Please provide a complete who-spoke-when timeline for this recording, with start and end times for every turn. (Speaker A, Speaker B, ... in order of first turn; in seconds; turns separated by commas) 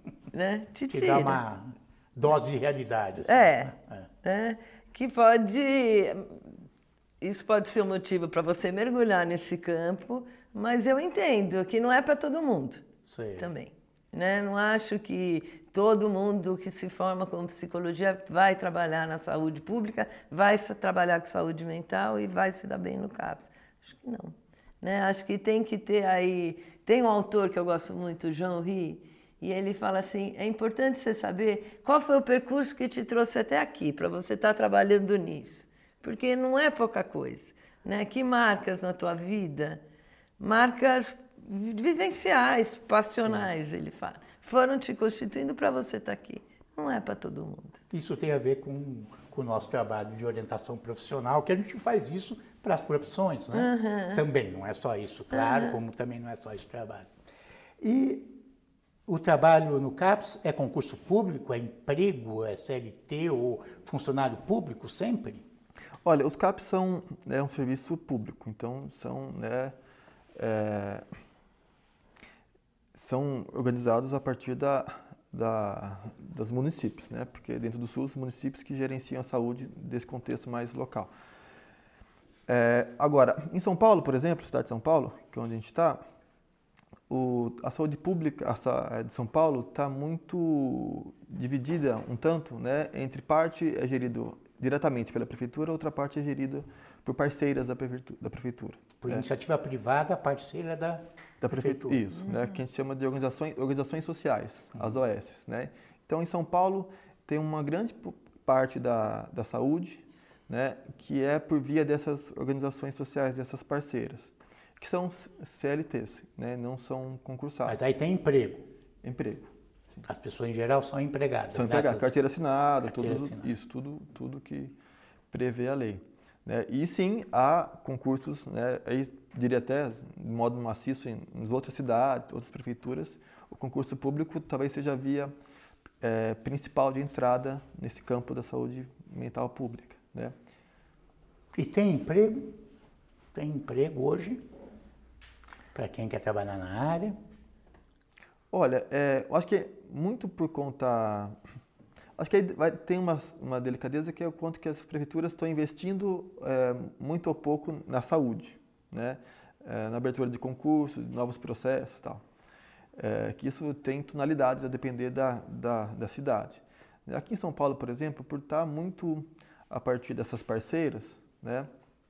Speaker A: 0.3-1.4, Speaker B: 0.9-4.1, Speaker A: 3.3-6.4, Speaker A: 7.2-12.8, Speaker B: 13.1-13.5, Speaker A: 13.4-39.8, Speaker A: 40.4-47.8, Speaker B: 47.9-57.1, Speaker A: 53.5-54.2, Speaker A: 55.3-55.8, Speaker B: 57.8-58.4, Speaker B: 59.1-65.5, Speaker C: 66.0-69.7, Speaker C: 70.3-71.0, Speaker C: 72.9-81.1, Speaker C: 82.5-86.0, Speaker C: 87.1-99.2, Speaker B: 99.0-102.0, Speaker C: 101.4-117.8, Speaker A: 102.2-102.5, Speaker B: 117.7-118.7, Speaker C: 119.0-120.0, Speaker B: 120.0-122.2, Speaker C: 121.5-124.7, Speaker B: 122.8-123.5, Speaker C: 125.3-135.3, Speaker C: 136.0-140.3, Speaker B: 141.5-142.6, Speaker B: 143.3-144.4, Speaker B: 145.7-147.2, Speaker C: 148.5-151.4, Speaker C: 152.2-162.2, Speaker C: 162.9-171.7